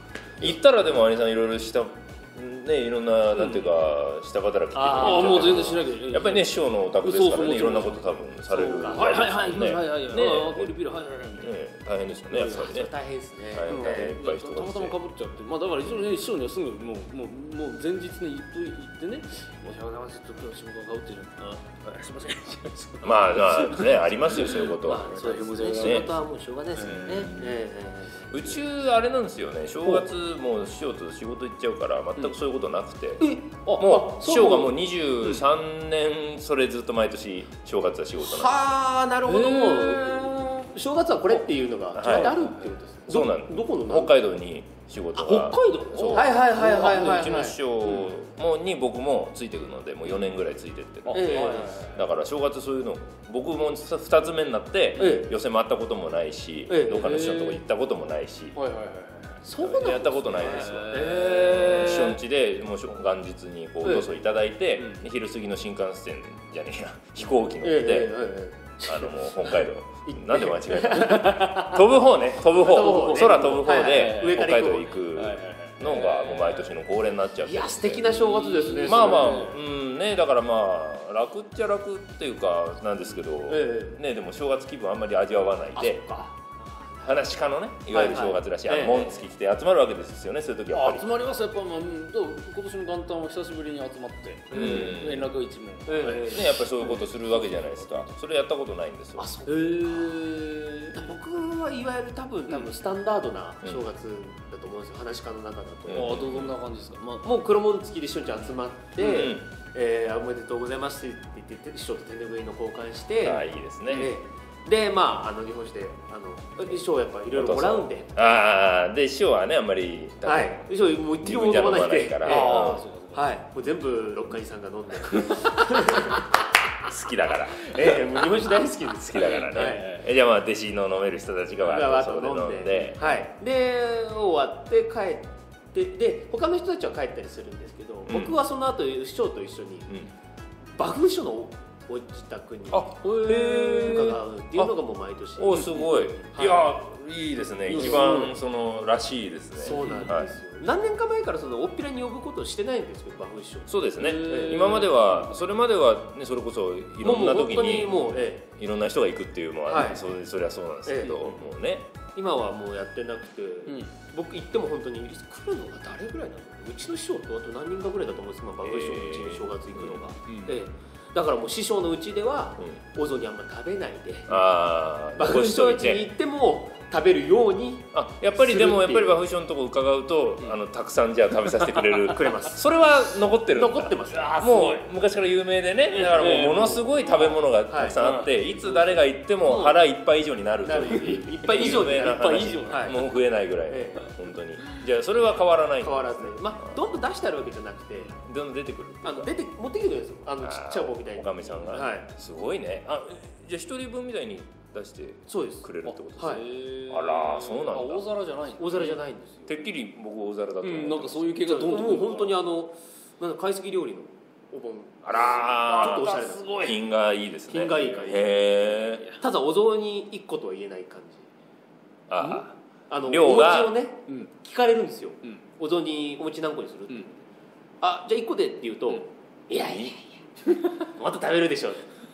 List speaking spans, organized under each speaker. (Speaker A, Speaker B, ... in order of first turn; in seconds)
Speaker A: 0.4-10.8, 11.4-12.9, 13.5-15.0, 23.0-26.1, 26.8-27.6, 28.3-33.3, 33.8-38.7, 42.0-42.4, 43.1-58.6, 59.5-68.1, 68.8-86.0, 87.0-91.1, 94.5-95.3, 96.2-99.3, 105.9-106.5, 109.0-109.5, 113.2-114.1, 117.3-120.7, 121.2-122.8, 126.8-128.0, 128.9-133.0, 138.1-138.4, 142.7-144.0, 145.4-150.3, 153.7-161.9, 168.6-170.0, 174.3-176.1, 177.9-196.7, 198.2-199.3, 200.4-208.0, 209.5-212.3, 215.0-219.0, 222.1-223.8
Speaker B: 3.4-3.6, 4.8-5.8, 8.8-9.2, 12.3-14.2, 24.8-28.6, 33.2-34.8, 38.2-44.1, 46.1-47.6, 51.1-51.9, 55.0-55.3, 56.7-57.3, 59.5-62.2, 63.8-64.1, 67.6-71.8, 72.5-75.0, 77.4-79.5, 83.5-84.0, 85.8-87.2, 87.9-89.2, 94.5-95.0, 95.9-96.7, 99.2-100.3, 100.9-106.2, 107.2-118.4, 120.2-126.3, 127.6-129.9, 131.6-139.9, 140.8-145.7, 146.3-146.7, 147.7-148.3, 149.6-153.7, 154.2-154.8, 157.0-158.4, 159.7-160.0, 160.9-161.3, 162.1-174.5, 175.1-179.2, 181.9-182.6, 183.5-184.5, 187.7-188.0, 189.5-189.8, 190.6-193.0, 193.7-194.1, 195.8-198.1, 199.0-202.1, 205.3-206.4, 208.6-209.5, 211.5-216.8, 217.5-218.5, 219.2-221.3, 222.9-227.2, 227.8-231.8
Speaker C: 4.9-11.6, 13.7-26.2, 26.7-27.3, 39.2-40.5, 42.0-42.7, 45.2-48.1, 51.1-52.0, 56.9-57.6, 58.5-59.7, 60.2-62.1, 64.8-65.0, 71.0-71.6, 72.6-74.5, 75.1-76.8, 78.1-79.6, 90.7-98.1, 99.4-101.1, 105.9-107.3, 122.2-123.3, 125.1-126.0, 129.1-130.1, 143.0-144.2, 145.5-146.3, 147.7-148.3, 149.7-150.2, 154.0-155.4, 163.7-163.9, 170.3-170.6, 184.1-184.9, 185.9-187.4, 188.0-188.8, 189.5-189.8, 191.4-193.0, 205.8-209.0, 210.6-212.3, 215.4-216.8, 222.2-222.4